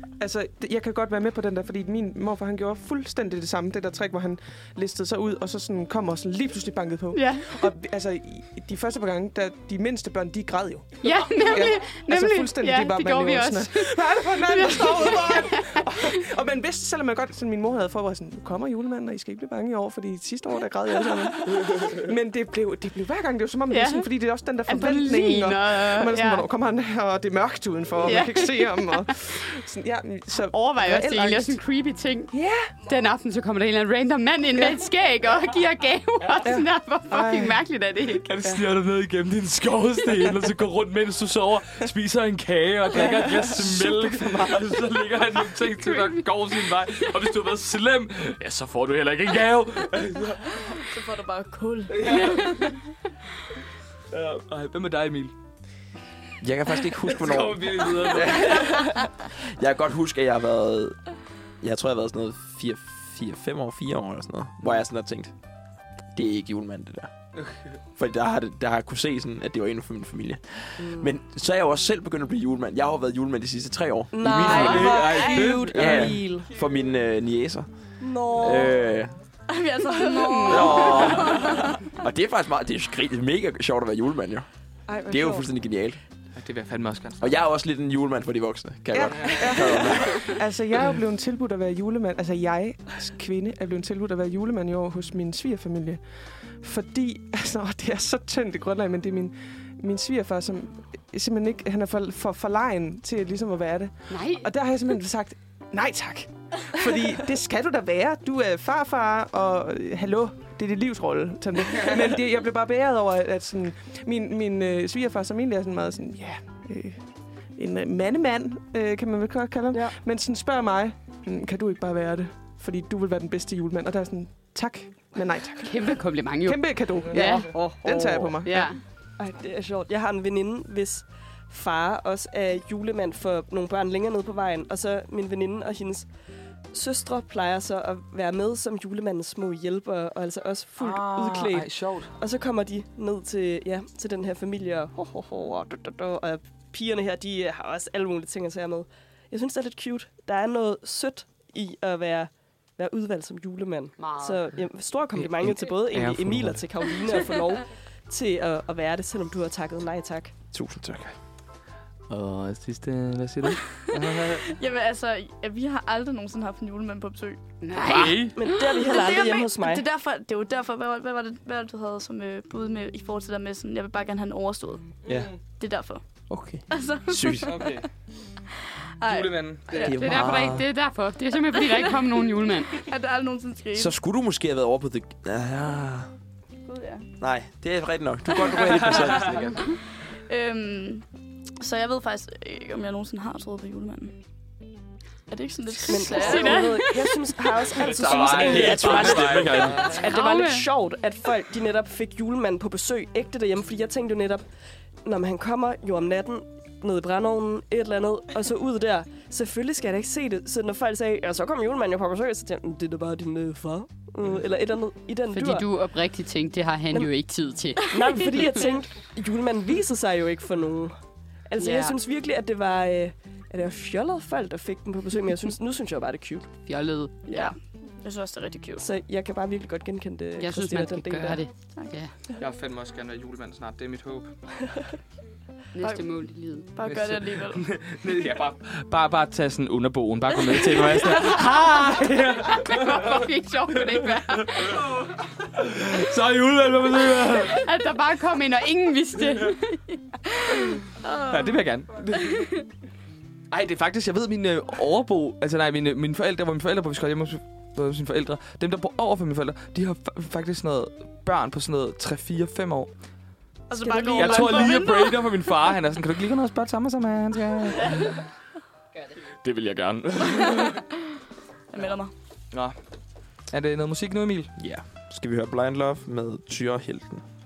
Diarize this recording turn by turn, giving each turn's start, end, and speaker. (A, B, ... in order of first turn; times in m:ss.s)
0:00.2-0:31.6 A
0:07.1-0:07.7 B
0:11.0-0:16.1 B
0:23.7-0:24.1 B
0:24.6-0:26.4 B
0:28.0-0:29.0 B
0:30.3-0:38.3 B
0:32.3-0:32.7 A
0:36.4-0:37.6 A
0:38.3-0:50.8 C
0:42.9-0:44.6 A
0:45.8-0:46.2 B
0:50.7-0:52.8 D
0:51.9-0:52.8 C
0:54.1-0:55.3 C
0:56.4-1:01.0 E
0:57.1-0:58.9 C
1:01.6-1:05.3 E
1:06.1-1:07.1 E
1:08.0-1:19.2 E
1:10.8-1:11.1 F
1:14.1-1:16.5 F
1:14.2-1:16.2 C
1:15.0-1:15.3 D
1:18.0-1:18.8 F
1:19.5-1:21.7 D
1:20.0-1:21.3 F
1:20.3-1:21.1 B
1:20.5-1:24.5 E
1:24.9-1:25.4 F
1:25.0-1:26.0 E
1:26.4-1:27.3 C
1:27.2-1:30.4 E
1:28.9-1:36.0 A
1:36.6-2:08.7 A
1:44.1-1:44.5 B
2:05.6-2:07.7 B
2:07.1-2:08.4 F
2:08.4-2:08.8 B
2:09.2-2:16.1 F
2:16.7-2:40.3 F
2:20.8-2:22.1 C
2:34.0-2:34.5 B
2:35.1-2:36.7 C
2:40.5-2:41.1 E
2:42.1-2:44.4 C
2:43.9-2:48.2 D
2:47.6-2:48.2 B
2:47.8-2:48.4 C
2:48.3-2:49.8 F
2:48.8-2:55.0 D
2:55.6-2:56.0 D
2:56.3-2:57.6 E
2:56.7-2:57.8 D
2:57.4-2:57.9 C
2:59.0-3:00.0 D
2:59.0-3:00.2 C
2:59.8-3:00.7 E
2:59.9-3:02.8 B
3:01.6-3:01.9 D
3:02.7-3:03.9 D
3:03.7-3:06.1 E
3:06.6-3:07.1 D
3:07.2-3:09.6 E
3:08.3-3:08.6 D
3:08.6-3:09.6 C
3:10.3-3:11.0 D
3:11.6-3:14.2 D
3:15.3-3:17.0 D
3:15.9-3:24.4 F
3:16.0-3:17.1 B
3:17.7-3:20.0 C
3:17.8-3:20.0 E
3:20.0-3:20.6 B
3:25.0-3:35.6 F
3:35.3-3:38.3 B
3:37.9-3:41.0 F
3:41.5-3:46.5 F
3:41.6-3:42.0 B
3:46.7-3:47.5 B
3:47.3-3:48.9 D
3:48.8-3:51.4 F
3:50.4-3:52.1 B
3:51.7-3:52.0 D
3:52.4-3:54.3 C
3:55.7-3:56.7 B
3:56.7-3:57.6 D
3:56.8-4:03.3 C
4:02.4-4:04.9 B
4:04.0-4:07.6 C
4:07.4-4:09.8 B
4:11.0-4:11.6 D
4:11.3-4:12.5 C
4:12.2-4:12.6 D
4:13.5-4:22.9 C
4:23.7-4:25.4 D
4:23.8-4:24.8 F
4:24.1-4:28.2 C
4:29.4-4:30.8 C
4:31.7-4:32.1 D
4:33.5-4:34.5 C
4:34.6-4:37.2 E